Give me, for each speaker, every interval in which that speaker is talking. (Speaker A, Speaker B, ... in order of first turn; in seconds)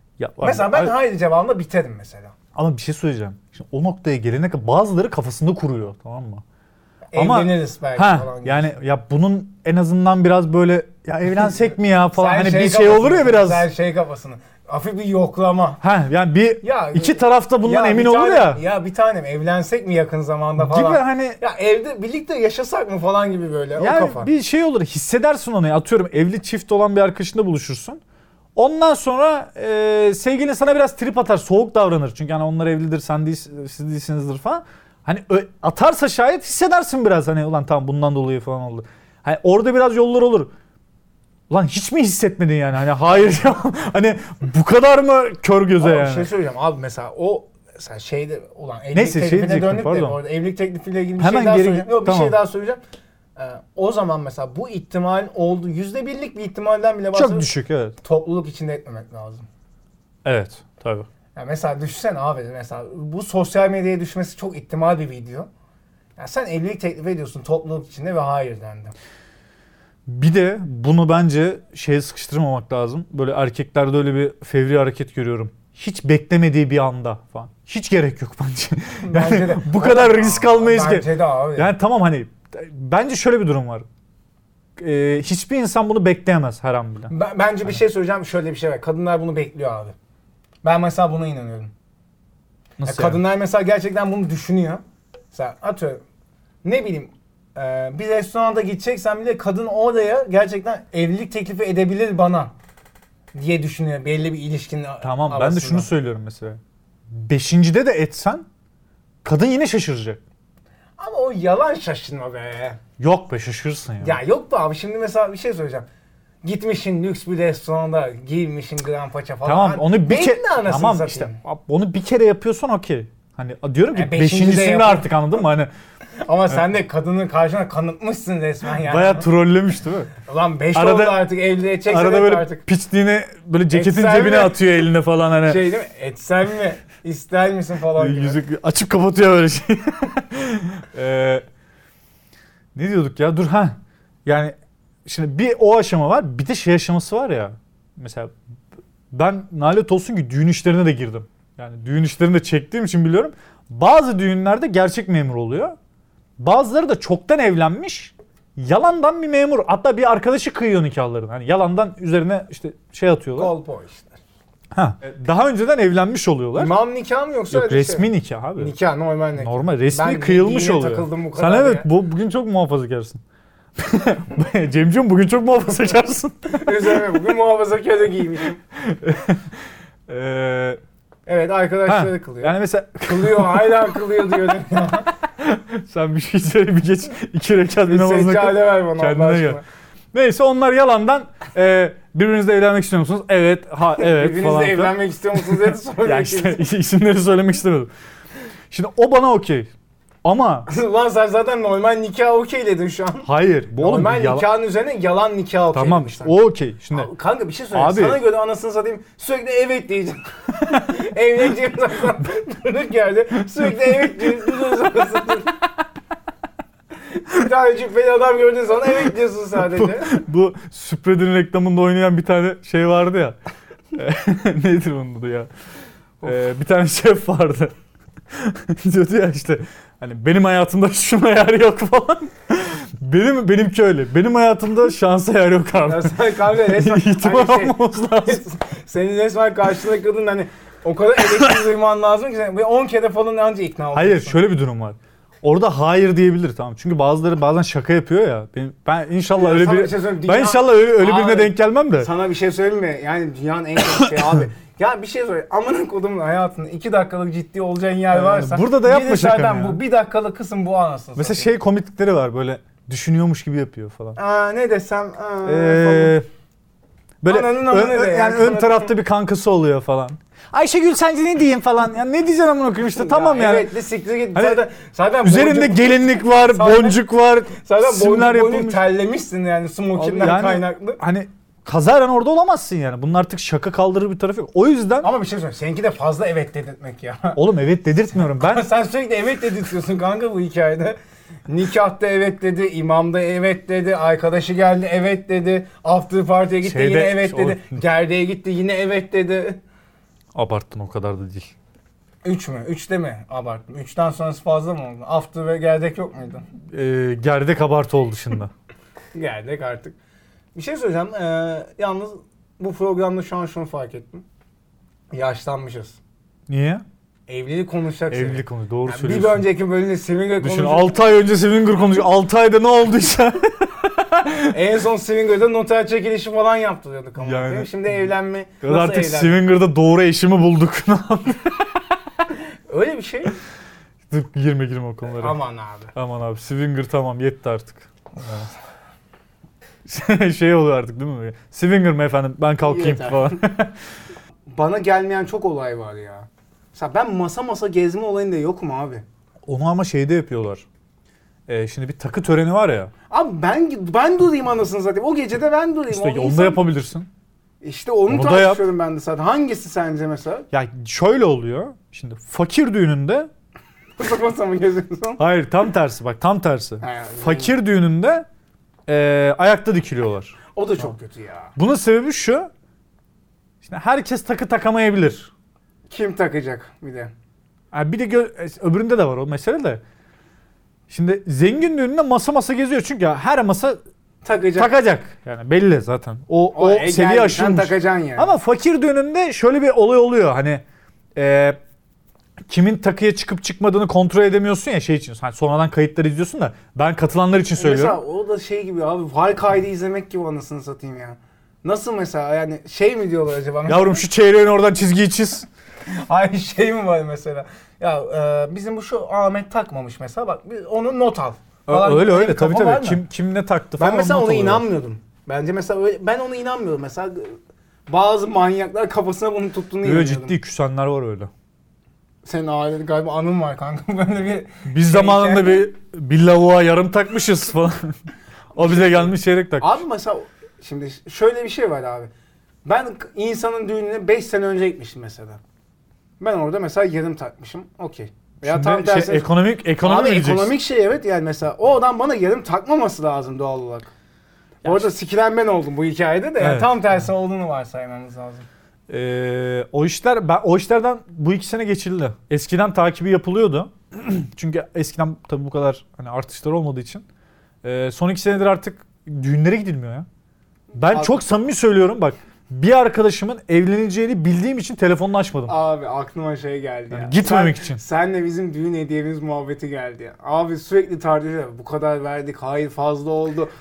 Speaker A: 0.2-0.9, 2.5-6.4, 7.2-13.7, 15.8-18.6, 20.6-21.4, 23.8-28.0, 28.6-40.5, 41.5-46.3, 48.9-50.2, 51.2-52.4, 57.1-58.0, 60.2-61.1, 70.1-83.9, 84.8-87.1, 92.8-93.2, 105.0-108.5, 109.2-110.2, 113.0-114.2, 119.5-125.7, 128.8-130.1, 130.8-131.3, 131.9-135.7, 138.0-141.4, 142.8-148.3, 149.1-155.8, 156.4-163.5, 164.7-166.7, 167.5-168.7, 169.4-173.2, 173.8-177.0, 178.8-180.8, 181.9-184.0, 185.4-189.6, 190.1-197.9, 198.7-199.7, 200.2-200.7, 203.2-204.5, 205.7-207.1, 207.7-208.2, 219.7-223.4, 223.9-225.5, 226.2-227.7, 228.3-238.4, 243.9-252.1, 258.1-259.8, 261.2-264.2, 265.4-266.3, 267.2-273.7, 274.3-274.6, 275.2-278.9, 280.0-285.1, 287.4-288.7, 296.6-297.8, 300.3-301.5, 306.7-308.5, 316.5-316.8, 318.1-319.4, 320.4-324.5, 327.2-328.1, 328.6-331.8, 334.1-335.4, 335.9-338.5, 339.9-343.8, 349.4-350.6, 351.5-352.9, 355.9-357.1, 358.1-358.6, 360.5-363.3, 365.2-368.2, 368.9-370.9, 371.6-372.5, 373.6-375.3, 377.7-379.8, 380.9-383.8, 384.6-390.6, 391.1-391.6, 392.5-398.0, 403.7-405.5, 411.7-414.7, 419.8-421.3, 424.7-428.0, 428.6-429.8, 438.4-440.6, 446.4-446.7, 448.9-457.0, 457.6-460.1, 460.7-465.6, 466.9-467.8
Speaker B: 0.4-2.3, 7.1-8.7, 12.1-15.8, 16.6-24.3, 45.8-52.8, 53.4-57.5, 58.0-59.5, 61.4-65.5, 66.2-68.9, 79.0-81.7, 87.1-90.0, 90.6-91.7, 92.8-96.0, 96.6-102.5, 103.3-105.9, 111.0-112.8, 114.0-115.9, 116.4-121.4, 123.9-125.1, 126.2-129.3, 130.2-132.6, 133.7-134.6, 135.4-138.4, 163.4-164.2, 166.6-171.9, 176.5-178.6, 181.3-185.1, 187.9-189.6, 194.0-196.6, 200.7-206.3, 206.9-215.6, 217.1-220.1, 235.8-244.4, 249.3-261.5, 264.2-266.2, 267.3-268.9, 272.9-277.0, 277.5-281.0, 285.0-287.4, 288.1-291.0, 291.5-299.6, 302.2-306.4, 309.1-310.0, 310.6-314.2, 315.1-316.0, 317.3-321.0, 324.5-329.4, 332.7-333.4, 335.1-335.9, 342.6-343.4, 344.5-349.0, 353.1-356.6, 357.6-360.5, 364.0-365.2, 366.8-367.6, 370.6-371.5, 375.9-377.1, 384.2-384.7, 386.6-388.3, 397.6-404.1, 405.9-413.0, 413.8-420.4, 422.2-425.7, 428.6-432.1, 432.6-435.4, 436.2-439.3, 439.8-443.9, 444.6-448.5, 460.8-461.2, 465.5-473.5